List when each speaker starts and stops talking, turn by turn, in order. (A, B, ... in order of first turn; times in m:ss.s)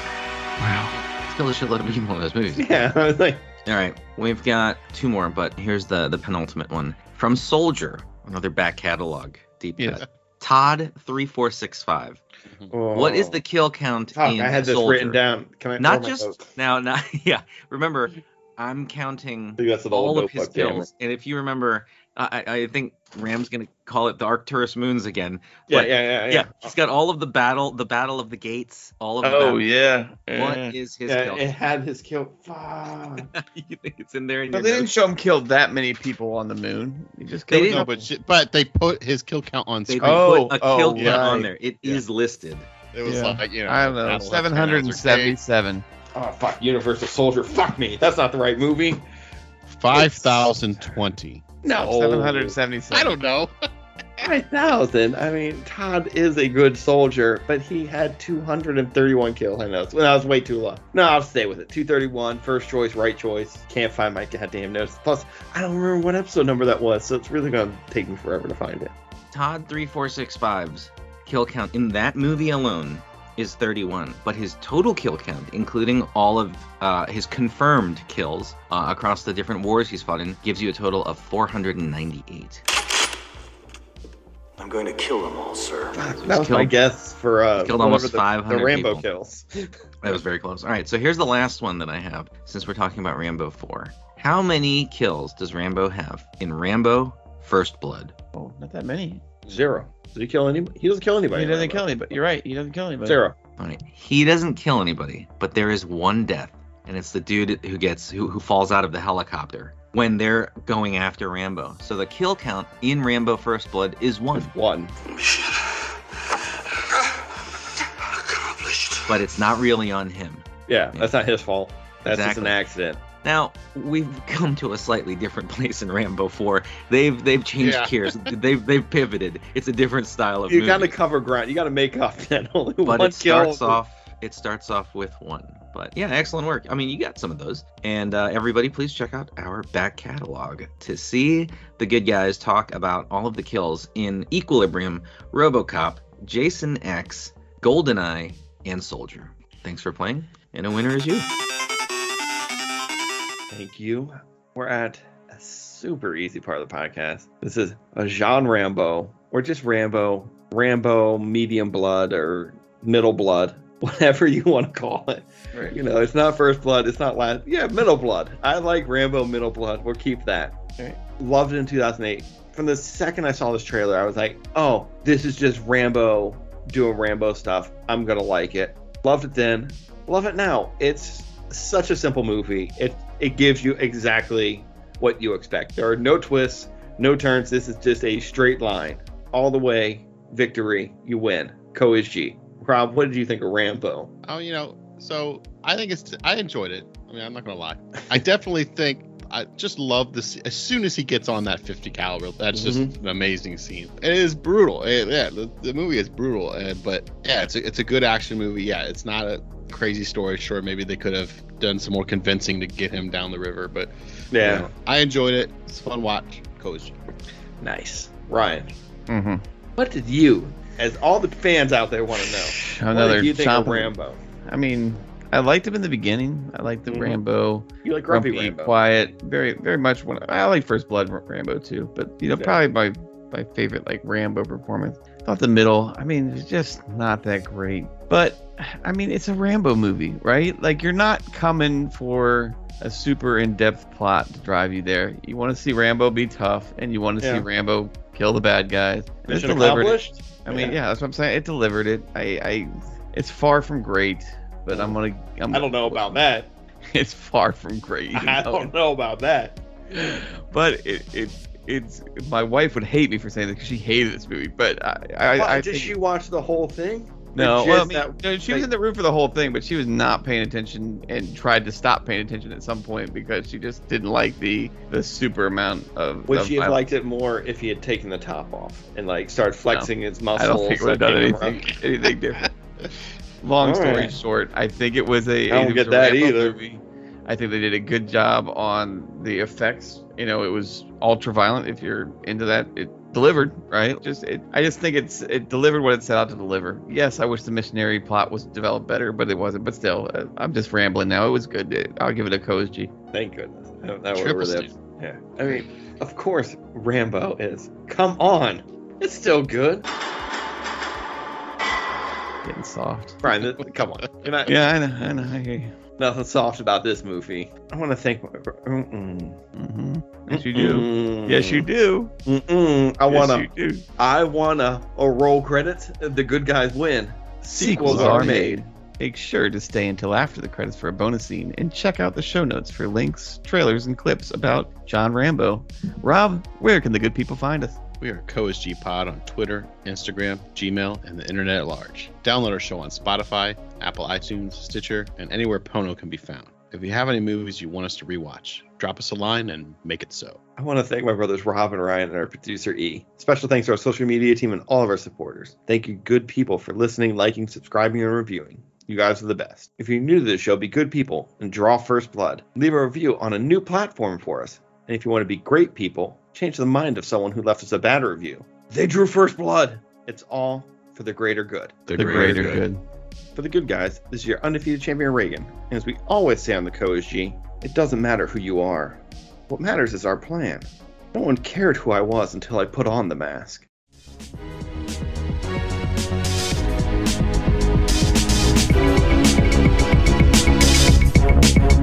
0:00.6-0:01.0 A
0:01.1-0:02.8 B
0:02.6-0:03.4 C
0:03.6-0:12.2 B
0:12.7-0:13.4 C
0:12.9-0:15.2 B
0:14.1-0:16.4 C
0:15.8-0:29.6 B
0:19.6-0:20.9 C
0:25.7-0:26.7 C
0:29.2-0:30.8 A
0:30.3-0:31.5 B
0:31.1-0:33.3 C
0:33.3-0:34.9 B
0:34.5-0:37.9 A
0:37.5-0:37.9 B
0:37.7-0:40.3 D
0:39.9-0:42.7 B
0:40.0-0:41.5 A
0:40.2-0:42.0 C
0:40.9-0:41.3 D
0:42.9-0:45.4 D
0:43.0-0:45.8 A
0:46.1-0:49.0 C
0:49.7-0:51.4 D
0:49.9-0:50.5 C
0:51.6-0:53.2 A
0:51.7-0:52.6 C
0:52.9-0:53.5 D
0:54.2-1:08.9 C
1:09.3-1:22.6 B
1:24.6-1:26.0 E
1:25.9-1:30.2 C
1:26.1-1:26.8 B
1:27.6-1:29.0 B
1:30.0-1:38.1 B
1:38.3-1:39.2 A
1:39.4-1:42.2 C
1:41.3-1:43.2 A
1:43.0-1:43.4 C
1:43.6-1:54.5 B
1:54.3-1:54.9 C
1:58.4-1:59.0 E
1:59.1-2:01.1 B
2:00.7-2:03.0 C
2:02.0-2:02.6 B
2:03.2-2:10.9 B
2:07.6-2:08.3 D
2:10.5-2:13.8 C
2:12.8-2:31.3 B
2:33.5-2:50.6 C
2:51.2-3:14.1 C
3:14.2-3:36.9 D
3:22.5-3:22.9 C
3:34.3-3:34.7 C
3:37.6-3:38.7 C
3:39.1-3:39.4 A
3:39.8-3:44.2 C
3:42.6-3:43.9 A
3:44.4-4:16.0 A
3:46.9-3:47.2 C
3:47.8-3:48.8 C
4:07.2-4:07.5 C
4:09.3-4:10.8 C
4:14.7-4:15.0 C
4:15.5-4:16.5 C
4:16.9-4:18.7 A
4:18.1-4:19.6 C
4:19.9-4:25.9 A
4:25.3-4:28.7 C
4:27.4-4:36.8 A
4:36.3-4:41.7 C
4:39.7-4:42.5 A
4:43.4-5:02.9 A
4:43.6-4:44.2 C
4:45.5-4:46.6 C
5:03.1-5:09.9 C
5:04.1-5:04.7 D
5:12.4-5:13.2 A
5:13.2-5:14.6 C
5:14.5-5:15.7 A
5:16.0-5:19.4 C
5:19.6-5:22.1 A
5:20.3-5:21.7 C
5:22.3-5:28.6 C
5:23.1-5:23.8 A
5:27.6-5:37.8 A
5:27.7-5:28.4 D
5:38.0-5:50.4 D
5:50.6-6:12.6 C
6:11.9-6:12.6 D
6:12.0-6:12.8 A
6:13.4-6:23.6 C